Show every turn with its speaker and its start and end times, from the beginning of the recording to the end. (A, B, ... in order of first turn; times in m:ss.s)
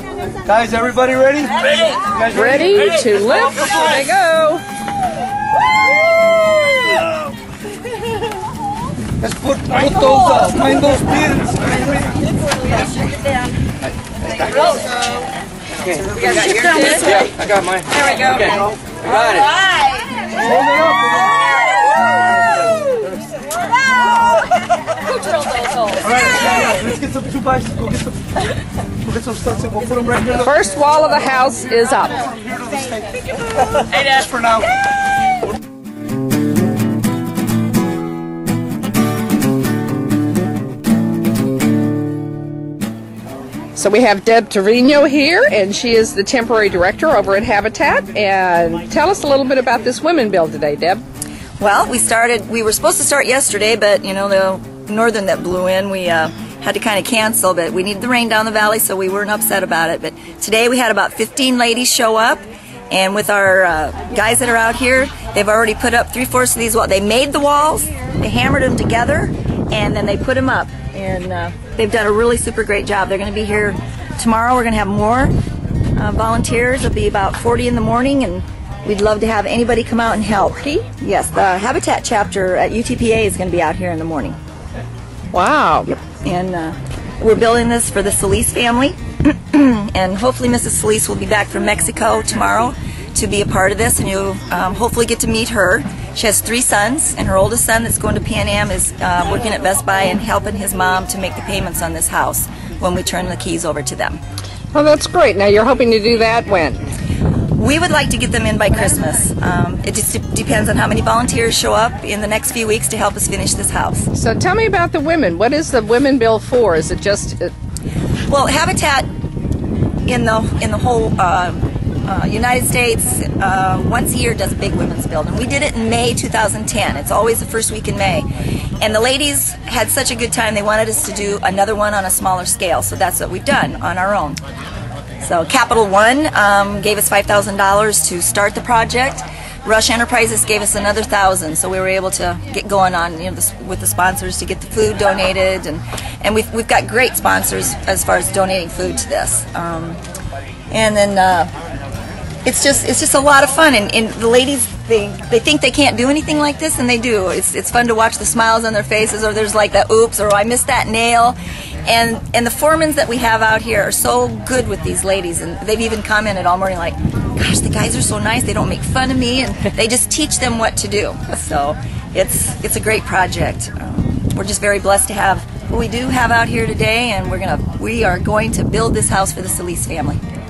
0:00.6-0:01.5 A
0:02.2-0:04.6 B
0:09.4-0:11.2 A
0:16.3-0:17.1 B
0:18.1-0:18.5 B
0:30.2-0:32.4 B
0:43.8-0:51.0 B
0:51.6-1:15.3 C
1:16.0-1:24.4 C
1:25.3-1:26.0 B
1:26.2-1:44.2 C
1:44.7-1:46.8 B
1:47.6-1:54.1 C
1:54.1-1:57.5 B
1:58.3-1:59.1 C
2:00.1-2:08.3 C
2:08.8-2:14.4 C
2:15.2-2:30.0 C
2:30.7-2:31.5 C
2:32.4-3:00.2 C